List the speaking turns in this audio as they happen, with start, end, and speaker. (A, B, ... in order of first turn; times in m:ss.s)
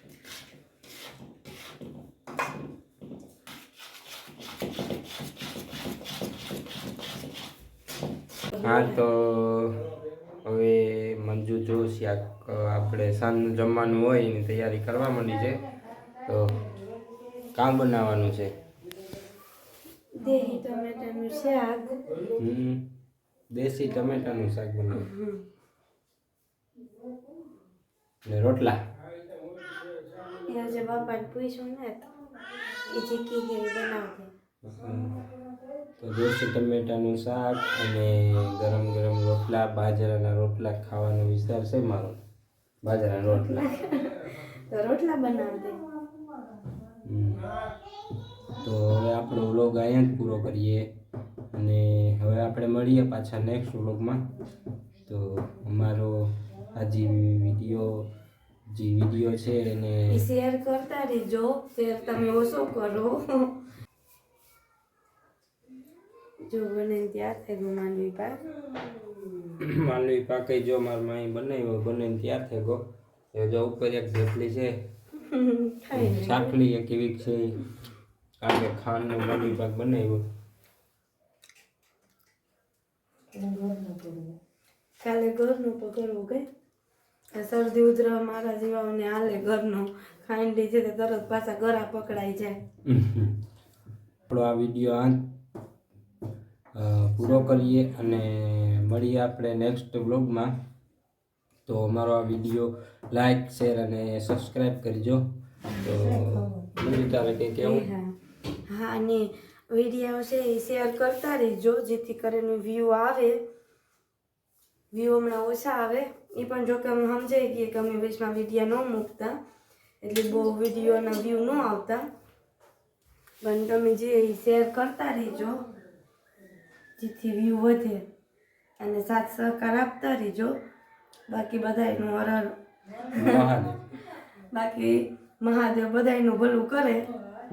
0:08.6-0:15.6 A
0:16.2-0:16.7 A
0:17.5-0:18.5 A
0:20.1-0:22.2 B
0:22.4-0:22.9 A
0:23.5-0:25.1 A
0:24.9-0:25.4 B
0:28.2-0:28.8 A
0:30.4-0:32.1 B
0:32.8-0:34.3 B
0:34.6-0:35.2 A
0:36.0-0:42.2 A
0:42.8-0:43.8 A
0:43.2-0:45.8 B
0:47.0-0:47.5 A
0:48.6-0:50.9 A
0:51.5-0:54.3 A
0:55.1-0:58.1 A
0:58.7-1:00.2 A
1:00.1-1:03.6 B
1:06.5-1:09.6 B
1:09.6-1:14.8 A
1:15.2-1:16.6 B
1:15.9-1:17.6 A
1:18.4-1:20.2 A
1:23.4-1:24.3 B
1:25.0-1:26.5 B
1:27.3-1:32.6 B
1:32.8-1:33.4 A
1:34.3-1:35.3 A
1:36.8-1:40.5 A
1:41.7-1:47.9 A
1:47.6-1:48.2 B
1:48.7-1:53.4 B
1:54.9-1:59.4 B
2:00.0-2:02.1 B
2:03.4-2:05.7 B
2:07.0-2:08.1 B
2:08.8-2:10.6 B
2:11.3-2:13.7 B
2:13.1-2:13.8 A
2:14.5-2:17.1 B